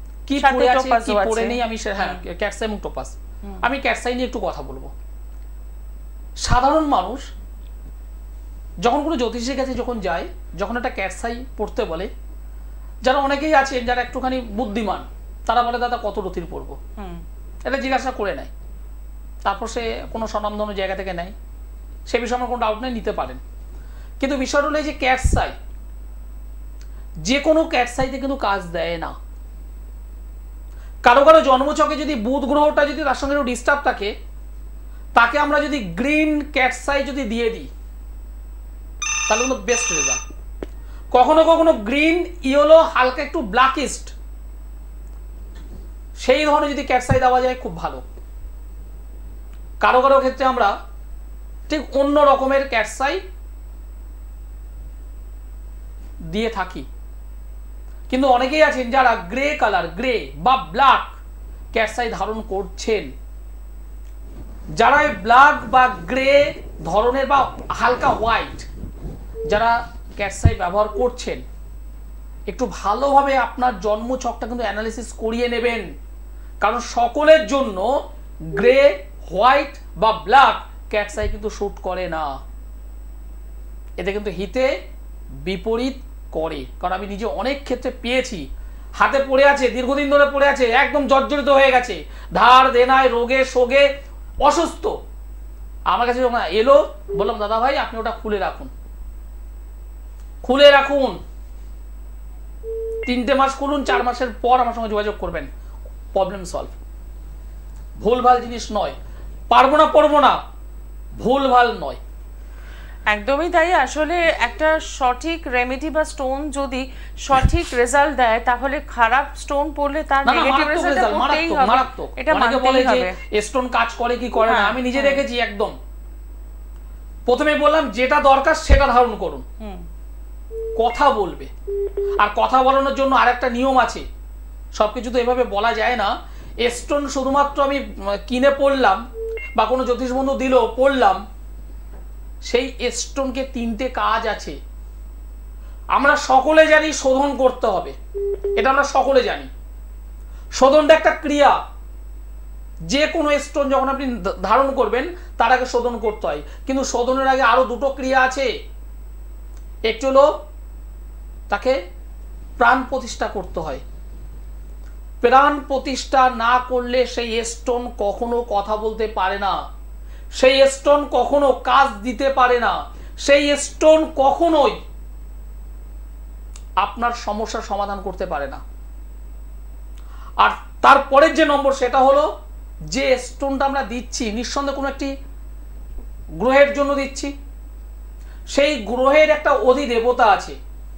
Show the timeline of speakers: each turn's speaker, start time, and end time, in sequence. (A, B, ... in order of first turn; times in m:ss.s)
0:00.3-0:04.9 A
0:00.4-0:02.2 B
0:06.4-0:07.3 A
0:08.8-0:12.1 A
0:13.0-0:16.8 A
0:17.0-0:17.2 B
0:17.6-0:18.5 A
0:19.4-0:21.3 A
0:22.1-0:23.4 A
0:24.2-0:25.5 A
0:27.2-0:29.2 A
0:31.0-0:34.1 A
0:35.1-0:37.7 A
0:39.3-0:40.2 A
0:41.1-0:44.1 A
0:46.2-0:48.0 A
0:49.8-0:50.7 A
0:51.7-0:53.2 A
0:56.3-0:56.9 A
0:58.1-1:01.2 A
1:01.7-1:03.1 A
1:04.8-1:08.7 A
1:09.5-1:11.4 A
1:12.5-1:15.9 A
1:16.6-1:17.9 A
1:18.5-1:22.4 A
1:24.0-1:24.7 A
1:25.4-1:28.4 A
1:29.0-1:33.9 A
1:34.4-1:35.0 A
1:35.9-1:38.7 A
1:40.4-1:41.2 A
1:43.0-1:45.5 A
1:46.1-1:46.7 A
1:48.0-1:49.0 A
1:49.5-1:50.4 A
1:51.2-1:52.0 A
1:53.1-2:03.2 B
2:00.2-2:05.7 A
2:04.5-2:05.2 B
2:07.3-2:09.4 A
2:09.6-2:09.8 B
2:10.8-2:11.5 A
2:12.2-2:14.1 A
2:14.7-2:19.0 A
2:19.6-2:21.2 A
2:22.5-2:24.6 A
2:25.9-2:28.0 A
2:28.6-2:29.5 A
2:30.6-2:31.6 A
2:32.9-2:38.5 A
2:39.9-2:40.4 A
2:41.5-2:41.8 A
2:42.6-2:43.8 A
2:45.2-2:49.6 A
2:50.4-2:54.8 A
2:56.8-2:58.6 A
3:00.4-3:02.3 A
3:02.9-3:05.1 A
3:06.4-3:07.3 A
3:08.5-3:10.6 A